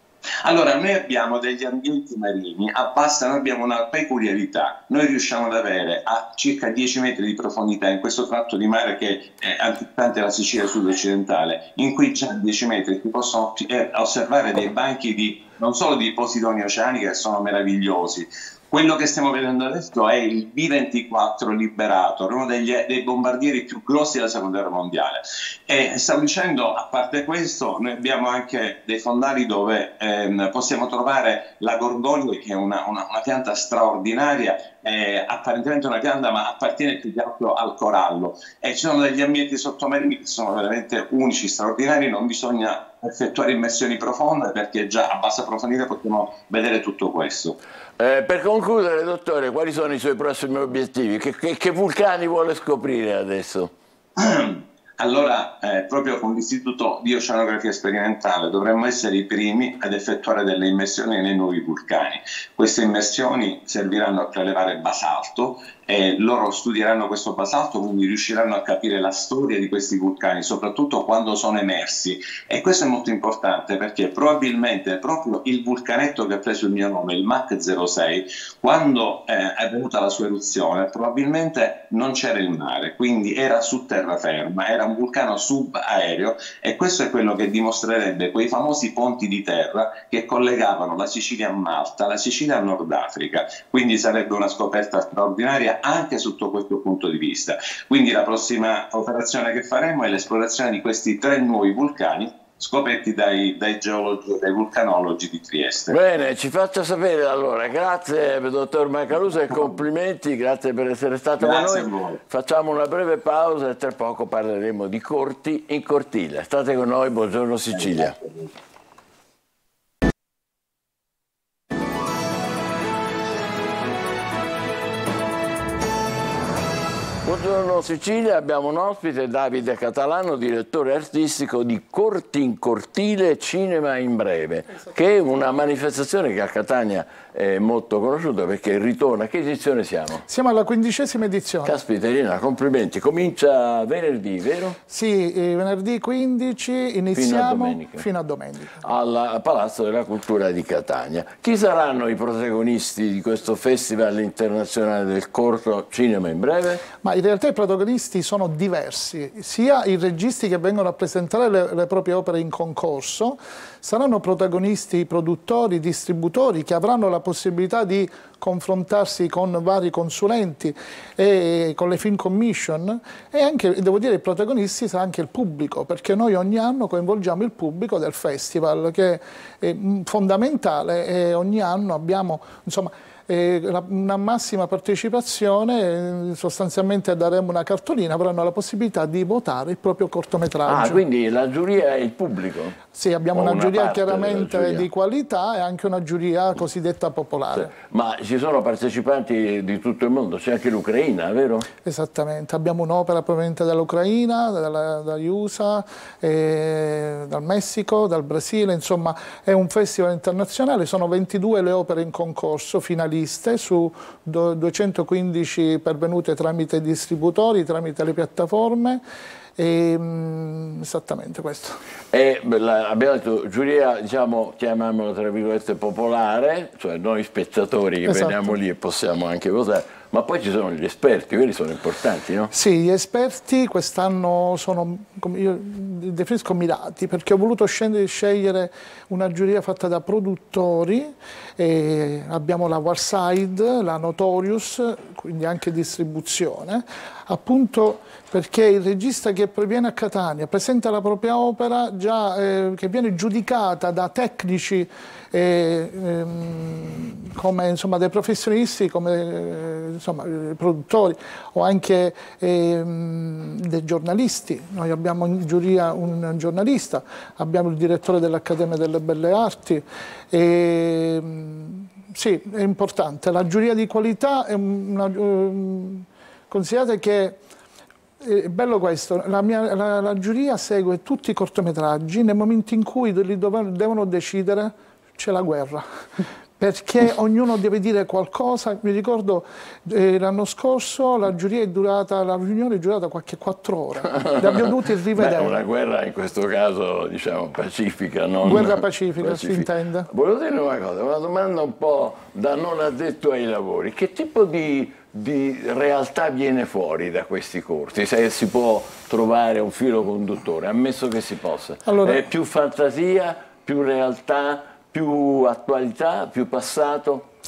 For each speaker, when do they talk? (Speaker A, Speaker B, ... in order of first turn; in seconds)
Speaker A: 0.4-47.6, 54.2-106.0, 111.4-112.2, 118.0-118.4
Speaker B: 48.0-53.7, 105.9-118.2, 127.2-140.2, 141.6-144.8, 147.1-148.1, 148.8-156.8, 190.7-192.8, 193.3-194.9, 197.5-201.7, 222.1-232.5, 294.2-317.2
Speaker C: 140.3-141.8, 144.9-148.8, 157.0-191.0, 192.9-197.7, 201.8-219.0, 219.6-221.8, 228.1-228.5, 232.5-277.4, 278.2-285.9, 286.6-295.6, 298.4-300.1, 311.9-312.2